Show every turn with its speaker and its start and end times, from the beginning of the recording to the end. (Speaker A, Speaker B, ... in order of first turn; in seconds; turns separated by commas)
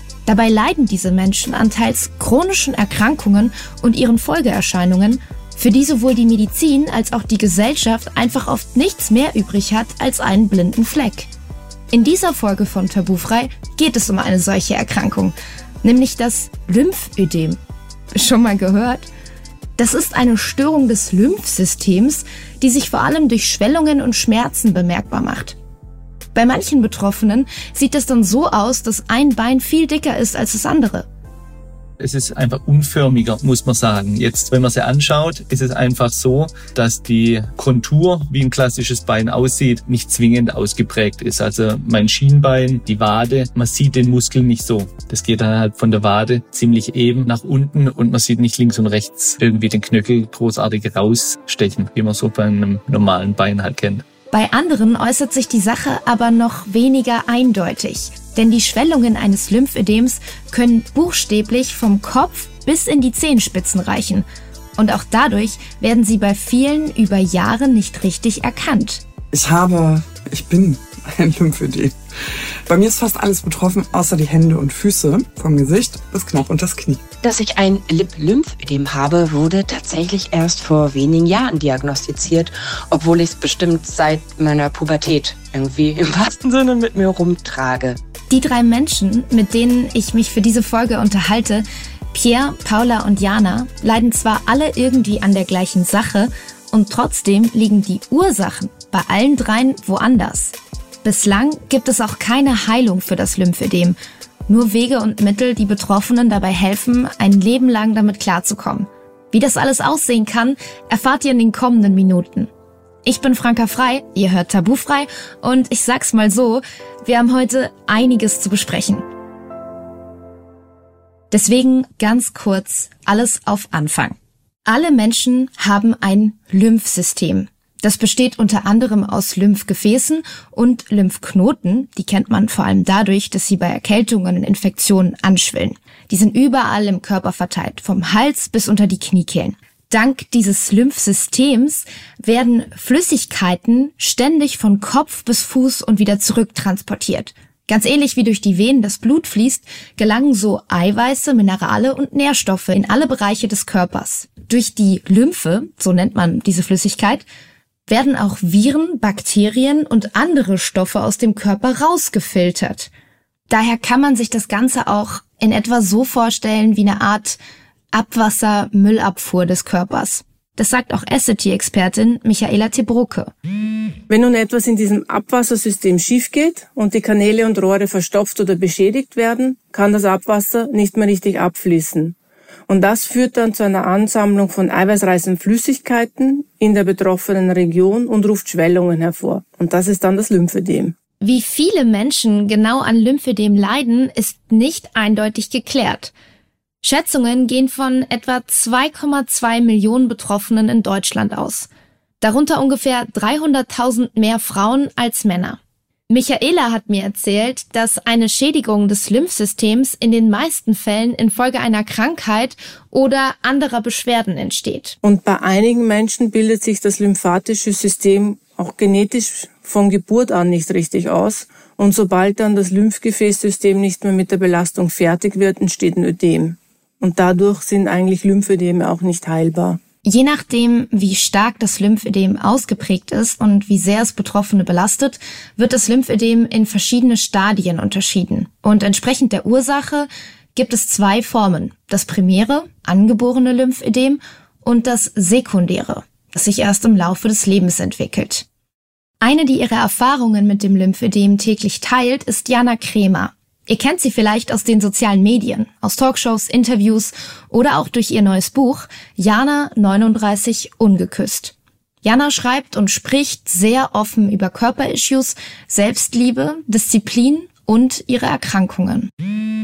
Speaker A: 0.2-11.3, Speaker A: 11.9-17.6, Speaker A: 18.1-19.1, Speaker A: 19.8-25.6, Speaker A: 26.3-31.1, Speaker B: 32.0-54.0, Speaker A: 54.3-64.2, Speaker A: 64.8-69.0, Speaker C: 69.3-72.0, Speaker C: 72.7-77.0, Speaker D: 77.2-88.0, Speaker A: 88.3-104.0, Speaker A: 104.5-112.5, Speaker A: 113.0-119.0, Speaker A: 121.3-124.1, Speaker A: 124.7-157.2, Speaker A: 157.9-162.9, Speaker A: 163.5-167.4, Speaker A: 167.9-173.3, Speaker E: 174.1-182.2, Speaker E: 182.7-190.9, Speaker A: 191.2-196.1, Speaker A: 196.8-201.7, Speaker A: 202.2-205.6, Speaker A: 206.1-214.9, Speaker E: 215.0-229.8, Speaker A: 230.0-248.4, Speaker A: 249.2-269.1